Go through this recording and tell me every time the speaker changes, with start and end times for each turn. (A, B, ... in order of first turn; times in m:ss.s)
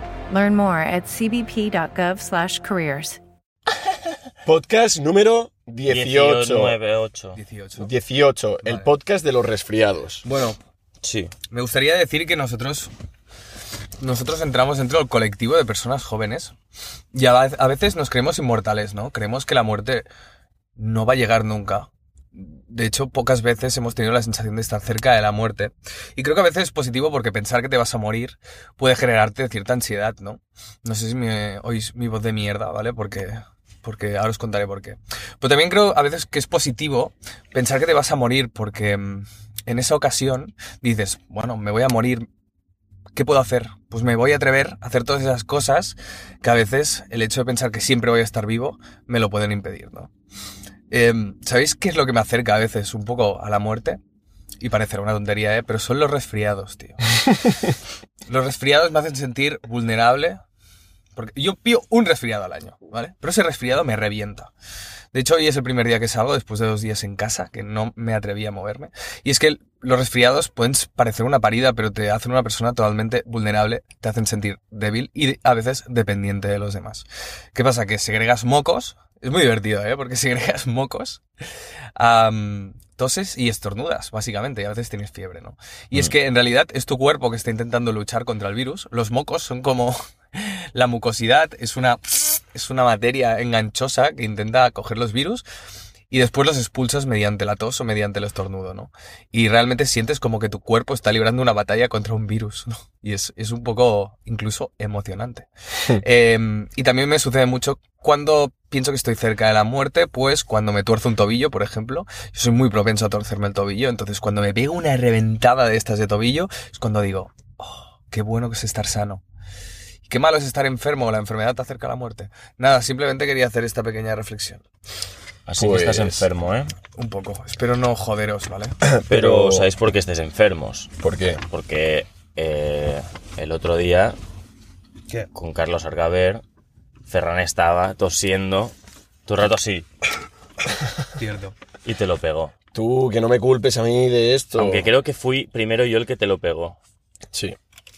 0:00.3-0:03.2 A
0:04.4-0:06.8 B
0:05.9-0:07.4 C
0:07.4-0:07.9 D
0:07.8-0:10.3 B
0:08.6-0:08.9 D
0:10.2-0:10.6 D
0:11.0-0:11.3 C
0:11.5-0:12.9 D
0:14.0-0:16.6 D
0:17.1-0:20.1 D
0:20.8-0:42.3 D
0:43.2-0:50.1 D
0:50.9-0:54.0 D
0:54.6-0:57.0 D
0:58.3-1:00.4 D
1:01.2-1:04.5 D
1:05.1-1:21.2 D
1:22.0-1:35.4 D
1:36.1-1:59.2 D
2:00.1-2:04.6 D
2:05.5-2:06.8 C
2:05.6-2:06.3 B
2:07.0-2:08.8 D
2:08.8-2:09.7 B
2:09.1-2:10.9 C
2:11.0-2:11.4 B
2:11.5-2:14.2 C
2:15.3-2:16.4 C
2:17.1-2:18.7 C
2:19.3-2:19.9 C
2:21.2-2:21.6 D
2:21.8-2:22.5 C
2:22.7-2:24.9 B
2:24.6-2:26.8 C
2:27.3-2:27.6 B